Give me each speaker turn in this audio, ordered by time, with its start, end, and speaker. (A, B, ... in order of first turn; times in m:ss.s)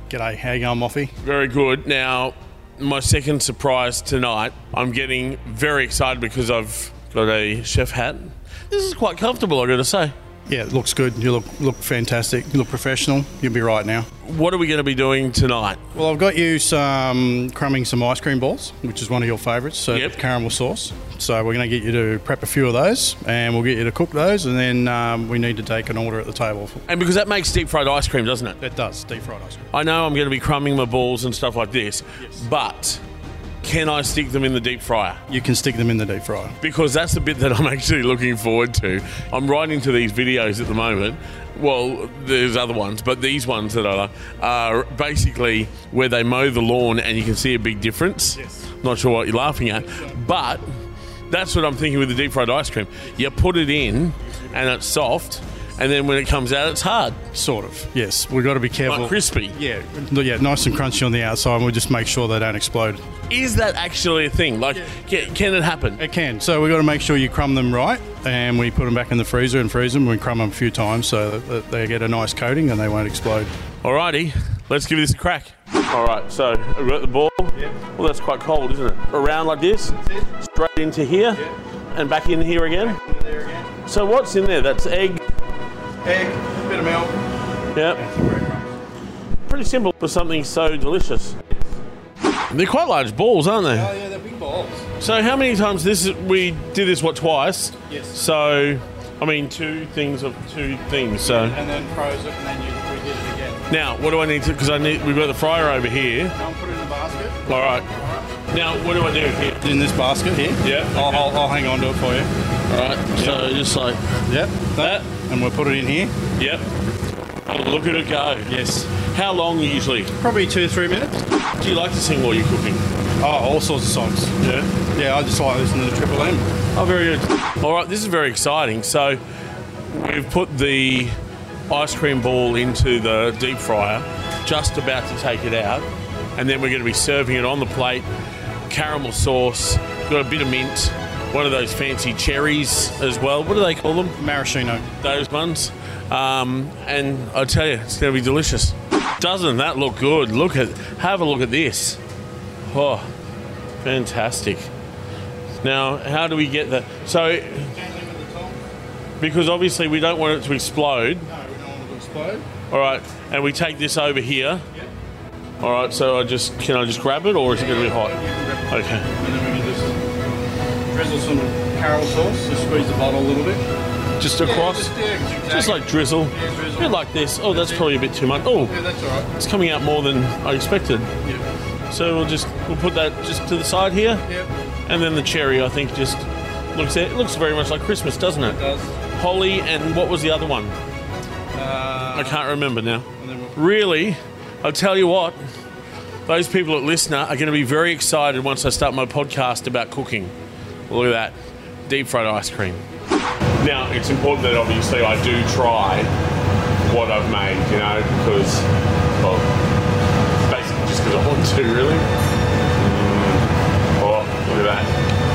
0:00.1-0:01.1 A
0:01.2-0:10.1 B
0:10.5-0:14.1 A
0:14.2-0:15.8 B
0:16.0-0:26.8 A
0:19.9-0:20.2 B
0:26.9-0:28.6 B
0:28.6-0:29.7 A
0:29.7-0:33.0 B
0:33.6-0:35.2 B
0:35.3-0:36.6 A
0:36.6-0:50.7 B
0:51.3-0:57.2 B
0:57.3-1:03.0 A
0:58.9-0:59.6 B
1:03.3-1:06.0 B
1:06.0-1:13.5 A
1:13.8-1:23.0 B
1:19.9-1:20.3 A
1:22.7-1:23.7 A
1:23.9-1:25.2 B
1:26.0-1:27.2 A
1:27.7-1:28.0 B
1:28.0-1:28.7 A
1:29.5-1:31.4 B
1:32.5-1:33.9 B
1:33.7-1:34.9 A
1:35.0-1:41.6 B
1:37.9-1:38.2 A
1:41.2-1:43.7 A
1:43.7-1:46.3 B
1:46.4-1:47.4 A
1:47.5-1:47.9 B
1:48.5-1:49.6 B
1:49.6-1:52.3 A
1:50.6-1:51.3 B
1:52.7-1:54.0 B
1:53.2-1:53.4 A
1:54.2-1:56.1 A
1:54.8-1:55.1 B
1:56.4-1:56.7 B
1:57.5-2:00.1 B
1:58.5-1:58.9 A
2:00.2-2:01.2 A
2:01.6-2:02.8 B
2:03.2-2:04.4 A
2:04.4-2:04.7 B
2:04.9-2:06.5 A
2:06.7-2:09.2 B
2:09.9-2:11.1 B
2:11.7-2:18.1 B
2:18.7-2:24.2 B
2:24.2-2:24.9 A
2:25.0-2:32.0 B
2:32.7-2:33.1 B
2:33.8-2:34.7 B
2:35.6-2:37.7 B
2:37.7-2:38.6 A
2:39.2-2:41.3 B
2:41.3-2:42.4 A
2:42.7-2:44.6 B
2:45.6-2:48.2 B
2:47.5-2:50.0 A
2:48.7-2:49.1 B
2:50.9-2:53.6 A
2:54.2-2:58.8 B
2:54.4-2:57.9 A
2:58.6-2:59.3 A
2:59.3-3:01.1 B
3:01.9-3:04.3 B
3:04.9-3:08.6 B
3:08.4-3:09.0 A
3:09.1-3:10.8 B
3:11.5-3:12.5 A
3:12.1-3:15.4 B
3:13.2-3:13.6 A
3:16.3-3:20.3 B
3:20.9-3:21.4 B
3:21.9-3:22.8 B
3:23.6-3:26.1 B
3:26.8-3:28.7 B
3:29.2-3:29.5 B
3:30.4-3:32.1 B
3:32.8-3:33.5 B
3:34.0-3:34.9 B